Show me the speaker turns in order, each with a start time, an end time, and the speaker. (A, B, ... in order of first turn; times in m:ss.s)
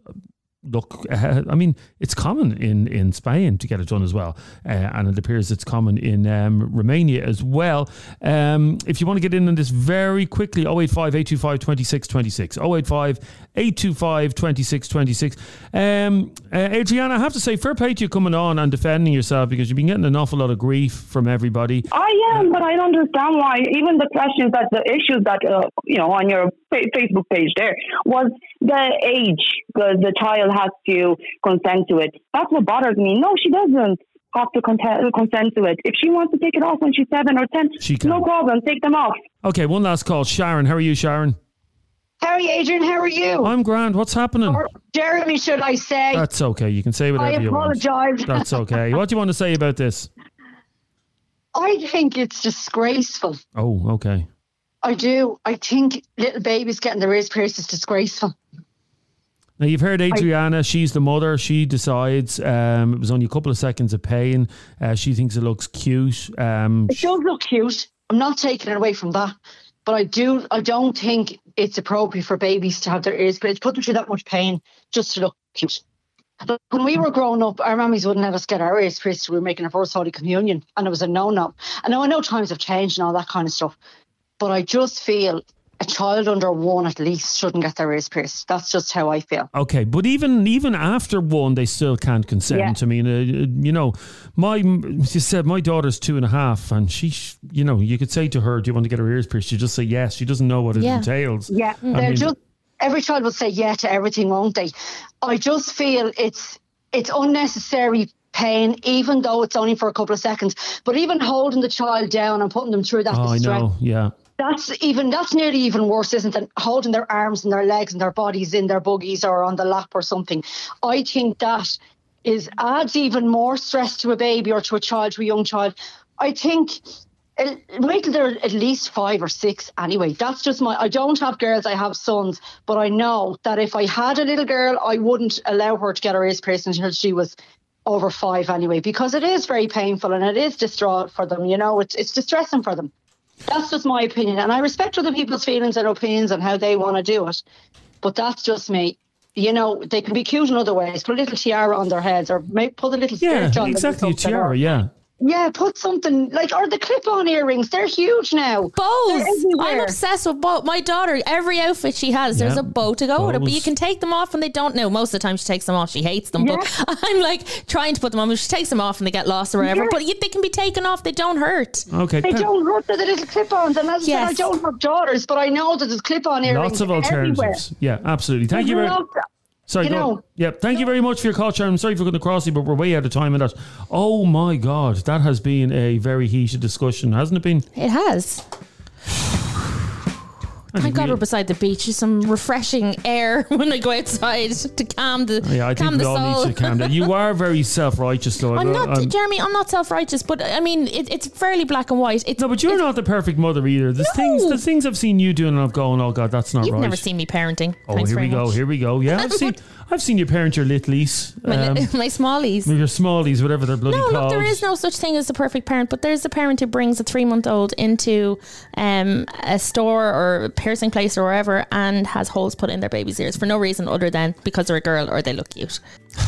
0:00.6-0:22.5 A
0:21.9-0:39.2 B
0:37.8-0:38.3 A
0:39.4-0:41.4 A
0:42.2-0:43.5 C
0:43.4-0:44.6 A
0:44.5-0:46.2 C
0:46.1-0:50.1 A
0:47.2-0:48.6 C
0:51.5-0:53.4 C
0:53.6-0:54.2 A
0:54.8-0:58.3 C
0:59.6-1:07.1 A
1:06.9-1:15.8 C
1:16.4-1:23.8 C
1:24.4-1:29.5 C
1:29.5-1:42.3 A
1:40.7-1:41.1 D
1:41.9-1:53.7 C
1:53.1-1:54.1 A
1:54.4-2:22.9 C
2:23.5-2:27.4 C
2:28.0-2:34.5 C
2:33.2-2:34.9 A
2:35.2-2:38.7 C
2:38.8-2:51.9 D
2:39.2-2:39.7 B
2:39.6-2:39.8 C
2:42.3-2:43.7 A
2:46.4-2:46.6 B
2:51.9-2:52.5 A
2:52.2-2:57.6 C
2:54.0-2:54.5 D
2:56.4-2:59.0 A
2:58.5-2:59.2 C
2:59.7-3:07.6 A
2:59.8-3:00.2 C
3:07.8-3:08.4 D
3:10.7-3:11.2 A
3:10.7-3:17.1 D
3:15.4-3:19.1 A
3:18.5-3:22.8 D
3:22.4-3:27.0 A
3:24.0-3:24.6 D
3:26.6-3:28.6 D
3:27.9-3:31.9 A
3:29.1-3:29.5 D
3:31.5-3:32.7 D
3:32.6-3:34.6 A
3:33.9-3:45.8 D